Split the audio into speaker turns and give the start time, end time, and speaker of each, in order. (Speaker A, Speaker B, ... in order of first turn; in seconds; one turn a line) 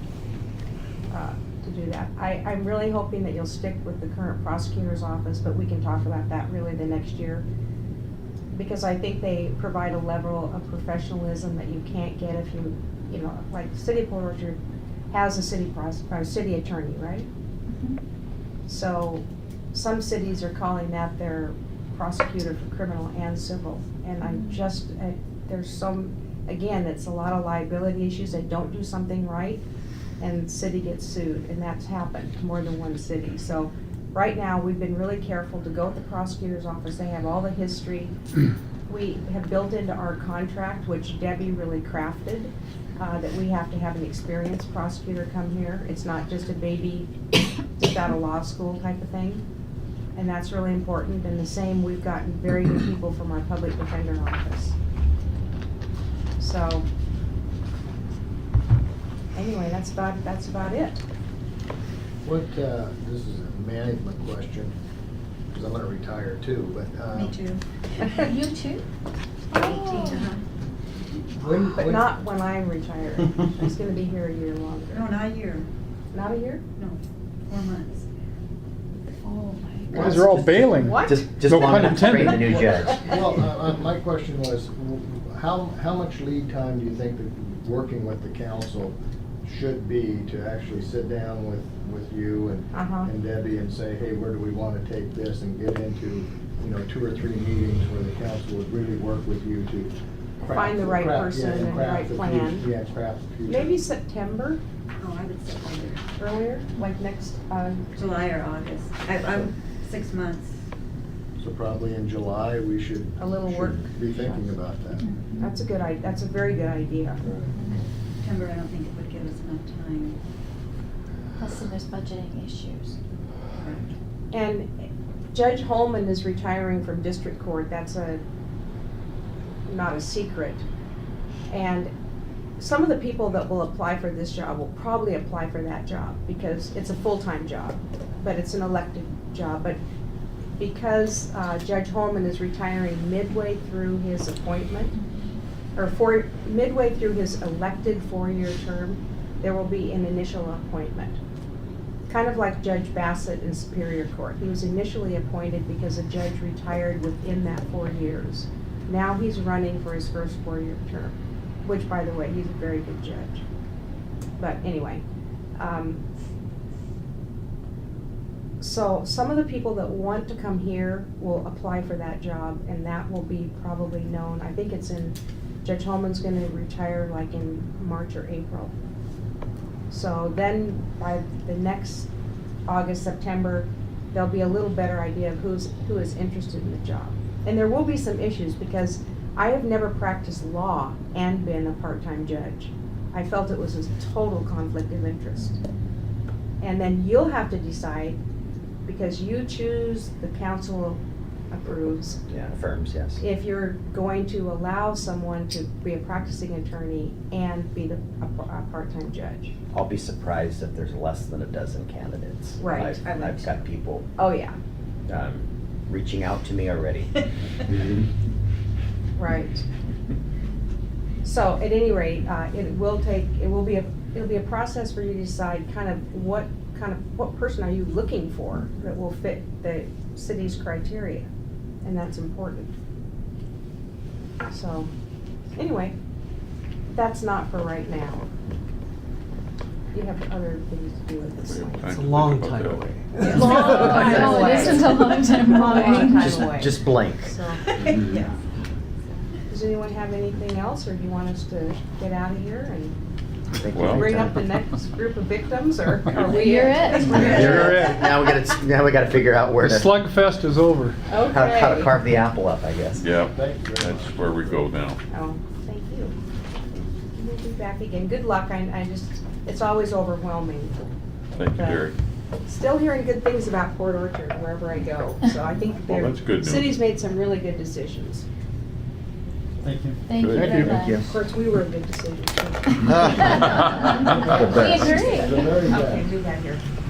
Speaker A: 1.1-7.5
Speaker A: 8.5-14.6
Speaker A: 15.1-17.3
Speaker B: 17.7-18.0
Speaker A: 18.7-29.6
Speaker B: 24.2-24.6
Speaker A: 30.2-38.1
Speaker A: 38.9-47.1
Speaker A: 47.8-49.4
Speaker A: 50.1-54.8
Speaker A: 56.4-56.8
Speaker A: 59.3-61.0
Speaker C: 62.2-64.7
Speaker C: 65.5-67.4
Speaker D: 67.1-67.6
Speaker B: 68.1-68.8
Speaker B: 69.5-70.3
Speaker D: 69.5-70.4
Speaker C: 71.4-72.2
Speaker A: 71.8-75.0
Speaker D: 74.9-75.7
Speaker A: 76.1-76.6
Speaker D: 76.8-78.0
Speaker B: 79.2-80.1
Speaker E: 79.9-83.1
Speaker F: 80.0-82.4
Speaker A: 80.8-81.2
Speaker C: 82.3-103.8
Speaker A: 92.7-93.1
Speaker A: 100.4-102.7
Speaker A: 103.5-104.6
Speaker D: 105.0-106.0
Speaker A: 106.2-107.9
Speaker D: 107.9-110.5
Speaker C: 111.4-115.0
Speaker A: 113.2-114.5
Speaker B: 115.0-115.5
Speaker A: 115.4-117.2
Speaker C: 117.2-117.5
Speaker D: 118.2-120.2
Speaker B: 121.4-122.9
Speaker D: 123.6-123.8
Speaker A: 124.3-128.2
Speaker A: 129.7-130.6
Speaker A: 131.5-131.9
Speaker A: 132.6-139.8
Speaker A: 140.6-144.9
Speaker B: 145.0-145.3
Speaker A: 145.8-151.2
Speaker A: 152.1-163.4
Speaker A: 164.4-165.0
Speaker A: 165.6-166.0
Speaker A: 168.6-178.7
Speaker A: 179.9-182.1
Speaker A: 182.7-195.5
Speaker A: 196.6-198.2
Speaker A: 198.8-201.0
Speaker A: 201.5-202.2
Speaker E: 202.3-203.2
Speaker A: 203.2-209.5
Speaker E: 209.7-214.1
Speaker A: 212.6-213.0
Speaker D: 212.6-213.6
Speaker A: 214.2-214.6
Speaker E: 215.1-217.2
Speaker A: 219.2-219.6
Speaker A: 221.2-231.3
Speaker A: 231.8-232.7
Speaker A: 234.5-234.9
Speaker A: 235.6-235.9
Speaker A: 236.9-238.2
Speaker A: 239.9-242.0
Speaker G: 241.4-243.5
Speaker F: 241.9-244.1
Speaker A: 243.1-247.6
Speaker B: 243.3-246.4
Speaker E: 243.4-244.8
Speaker E: 246.1-247.3
Speaker D: 247.7-248.3
Speaker A: 249.5-252.9
Speaker E: 253.5-254.4
Speaker G: 253.7-254.1
Speaker A: 253.9-257.9
Speaker B: 256.1-257.5
Speaker E: 257.1-260.1
Speaker F: 257.2-258.0
Speaker F: 259.6-261.0
Speaker A: 261.1-261.9
Speaker E: 261.2-263.0
Speaker G: 262.9-265.0
Speaker C: 263.3-264.6
Speaker A: 265.1-266.1
Speaker A: 267.1-270.9
Speaker G: 271.4-271.9
Speaker A: 271.4-271.9
Speaker A: 272.4-278.2
Speaker G: 275.8-276.8
Speaker F: 279.6-280.8
Speaker B: 280.0-281.0
Speaker G: 280.1-280.9
Speaker E: 280.4-281.2
Speaker A: 281.0-283.6
Speaker E: 282.8-285.3
Speaker B: 283.7-285.4
Speaker C: 284.7-286.1
Speaker A: 285.4-286.6